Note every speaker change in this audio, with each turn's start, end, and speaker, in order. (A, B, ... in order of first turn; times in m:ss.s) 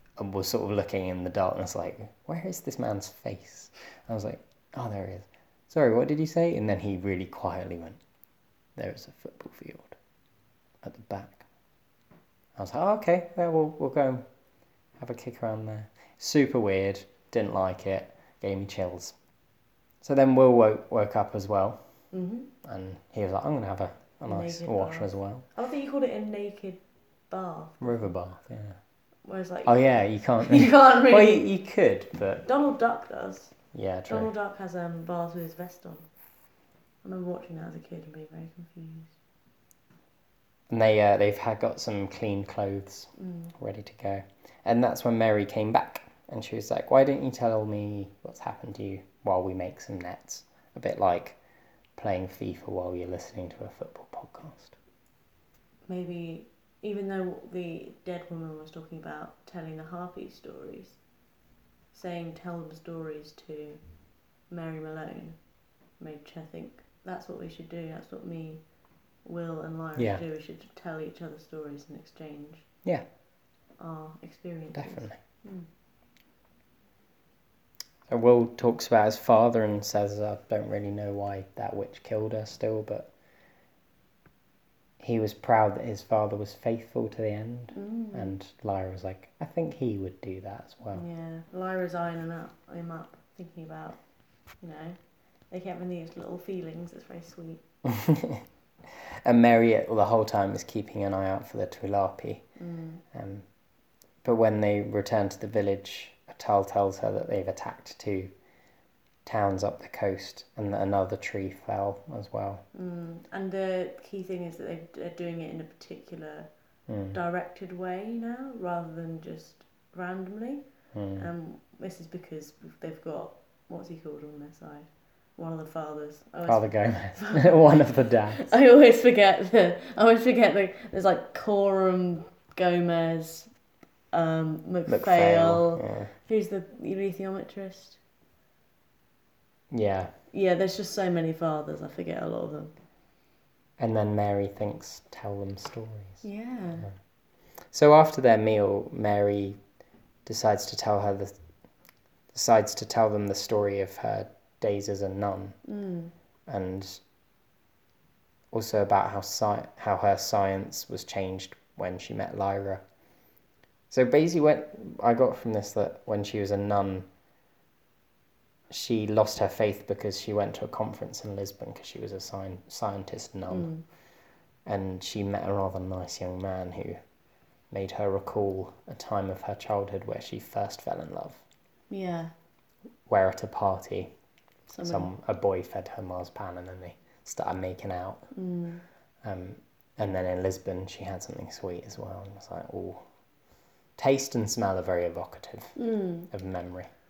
0:00.2-0:08.0 A
0:08.8-0:10.0 A
0:10.8-0:11.4 A
0:12.6-0:14.2 A
0:15.0-0:19.2 A
0:20.0-0:21.8 A
0:22.1-0:22.5 B
0:22.6-0:25.5 A
0:24.3-0:28.1 B
0:27.8-0:28.8 A
0:29.2-0:29.8 B
0:29.6-0:32.4 A
0:30.4-0:31.5 B
0:32.4-0:33.6 B
0:33.7-0:34.3 A
0:34.1-0:36.1 B
0:37.0-0:39.1 B
0:40.7-0:51.4 A
0:43.2-0:43.5 B
0:52.0-0:54.8 A
0:55.9-1:01.0 B
1:01.9-1:03.8 B
1:04.5-1:05.4 B
1:06.0-1:08.6 B
1:09.2-1:12.7 B
1:10.0-1:10.2 A
1:13.8-1:15.7 B
1:14.8-1:15.2 A
1:18.1-1:23.1 A
1:25.0-1:31.0 A
1:27.7-1:28.3 B
1:30.9-1:34.0 B
1:34.6-1:35.0 B
1:35.5-1:37.6 B
1:37.8-1:42.4 A
1:42.6-1:43.0 B
1:43.1-1:43.4 A
1:44.2-1:48.3 A
1:49.2-1:52.6 A
1:52.7-1:56.5 B
1:56.9-1:57.2 A
1:57.1-2:00.6 B
2:00.9-2:01.3 A
2:01.2-2:13.5 B
2:06.5-2:08.5 A
2:14.1-2:18.0 B
2:14.9-2:16.1 A
2:19.7-2:20.1 A
2:20.3-2:22.7 B
2:23.8-2:26.2 A
2:26.2-2:26.9 B
2:27.7-2:29.6 A
2:30.2-2:31.4 A
2:32.3-2:35.6 A
2:35.7-2:36.1 B
2:36.5-2:37.0 A
2:38.5-2:42.8 A
2:43.9-2:47.1 A
2:48.7-2:53.7 A
2:53.5-2:53.8 B
2:54.7-2:57.0 A
2:57.7-3:01.4 A
3:01.9-3:02.3 B
3:03.1-3:04.1 A
3:04.7-3:05.1 B
3:04.8-3:08.3 A
3:08.3-3:08.8 B
3:09.2-3:13.0 A
3:14.0-3:15.8 A
3:15.8-3:16.3 B
3:16.3-3:16.9 A